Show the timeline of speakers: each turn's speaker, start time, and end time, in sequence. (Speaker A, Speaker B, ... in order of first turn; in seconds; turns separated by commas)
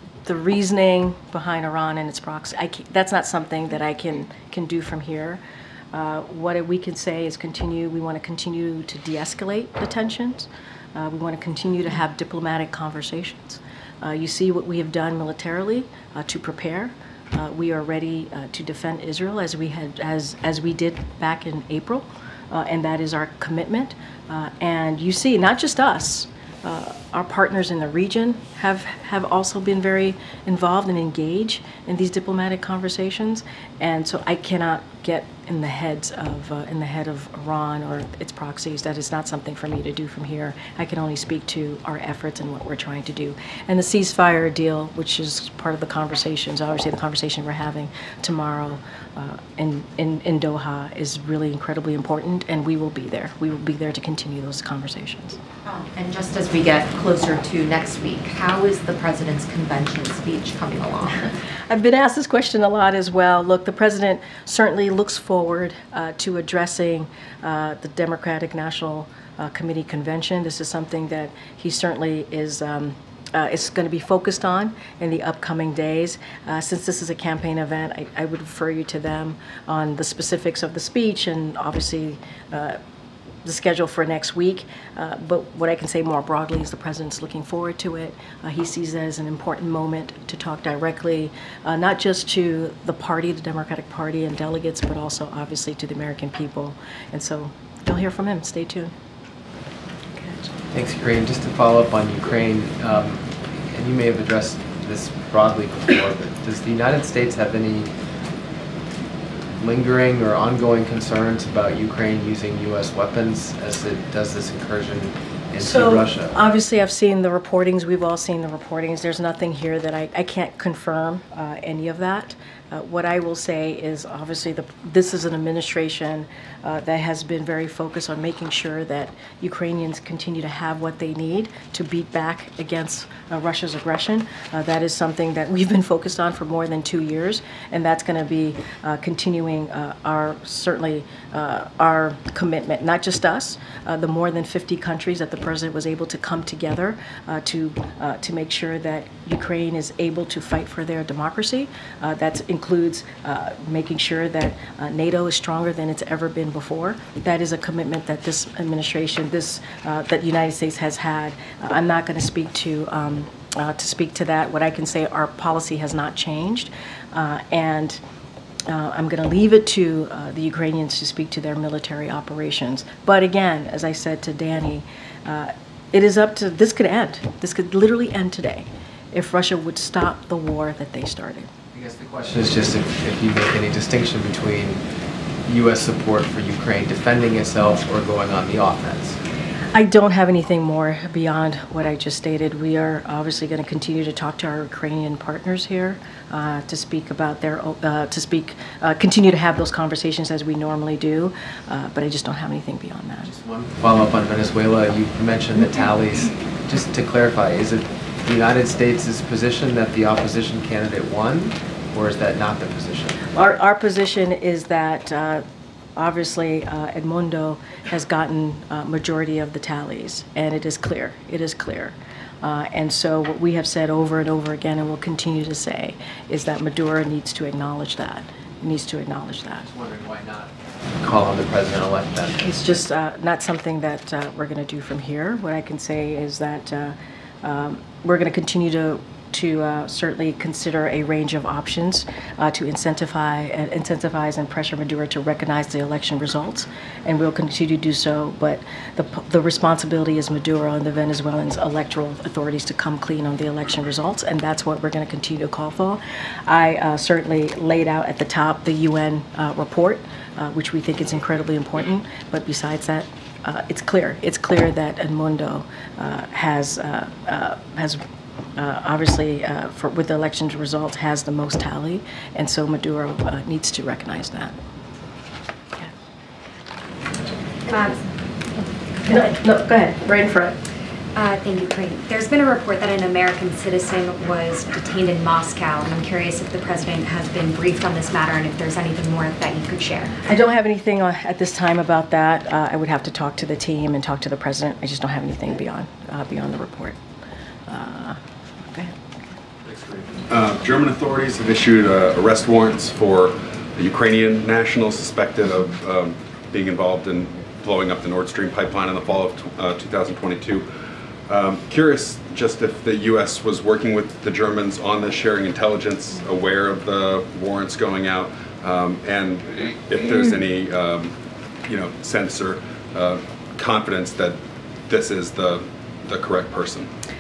Speaker A: 0.3-5.4, Speaker A: 5.9-55.4, Speaker B: 55.7-61.3, Speaker A: 61.7-82.8, Speaker A: 83.5-98.9, Speaker C: 100.7-107.9, Speaker C: 109.6-116.4, Speaker A: 115.6-168.0, Speaker A: 168.7-181.5, Speaker C: 181.7-184.8, Speaker C: 185.5-189.2, Speaker A: 189.7-203.3, Speaker C: 203.2-213.2, Speaker A: 213.3-215.4, Speaker A: 216.0-229.7, Speaker C: 229.6-232.4, Speaker A: 232.4-268.0, Speaker A: 268.6-274.5, Speaker D: 277.7-278.0, Speaker A: 279.1-280.6, Speaker D: 281.1-290.2, Speaker A: 290.2-297.0, Speaker A: 297.7-299.0, Speaker E: 299.7-310.7, Speaker E: 311.3-326.9